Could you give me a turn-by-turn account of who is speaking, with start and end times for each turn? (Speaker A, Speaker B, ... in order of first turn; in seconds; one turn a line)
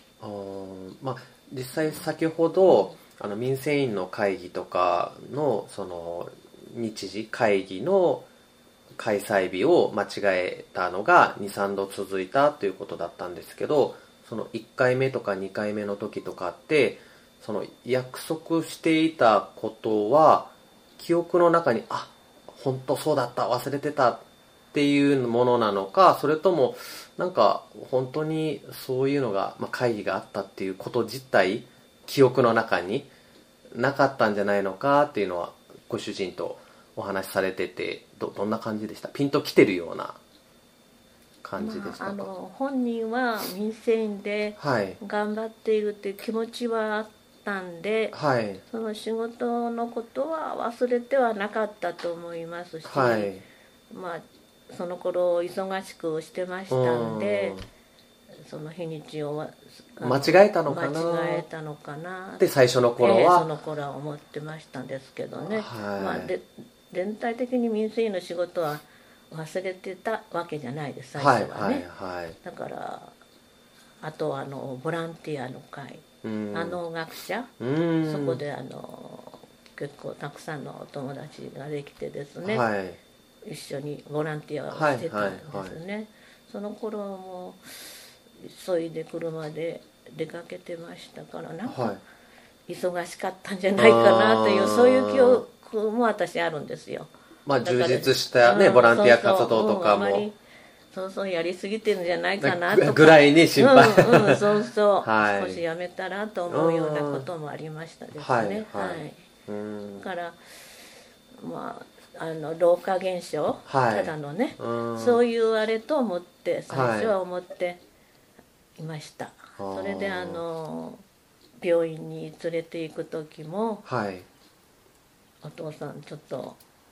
Speaker A: 0.2-8.3
Speaker A: 9.0-33.1
Speaker A: 33.7-40.2
Speaker A: 41.4-42.3
Speaker B: 41.6-48.1
Speaker A: 44.6-45.0
Speaker A: 48.1-48.6
Speaker B: 48.7-53.3
Speaker A: 52.9-53.4
Speaker B: 53.9-57.6
Speaker A: 56.7-57.7
Speaker B: 58.4-62.4
Speaker A: 60.0-61.5
Speaker A: 62.4-63.5
Speaker B: 63.0-71.9
Speaker A: 65.5-66.3
Speaker A: 71.2-72.4
Speaker B: 72.4-73.2
Speaker B: 74.0-77.5
Speaker A: 76.2-76.8
Speaker A: 77.6-78.4
Speaker B: 78.0-82.6
Speaker A: 82.5-83.0
Speaker B: 83.5-92.0
Speaker A: 84.7-85.8
Speaker A: 91.7-92.0
Speaker B: 92.7-97.1
Speaker A: 93.8-95.4
Speaker A: 97.5-100.3
Speaker B: 97.6-100.4
Speaker B: 100.9-109.3
Speaker A: 102.4-104.5
Speaker A: 105.0-105.6
Speaker A: 106.5-107.3
Speaker A: 108.2-110.1
Speaker B: 110.0-110.4
Speaker B: 111.4-117.8
Speaker A: 113.7-115.2
Speaker A: 116.7-117.1
Speaker B: 118.8-121.0
Speaker A: 119.6-120.4
Speaker B: 121.6-123.8
Speaker A: 123.8-124.3
Speaker B: 125.4-126.6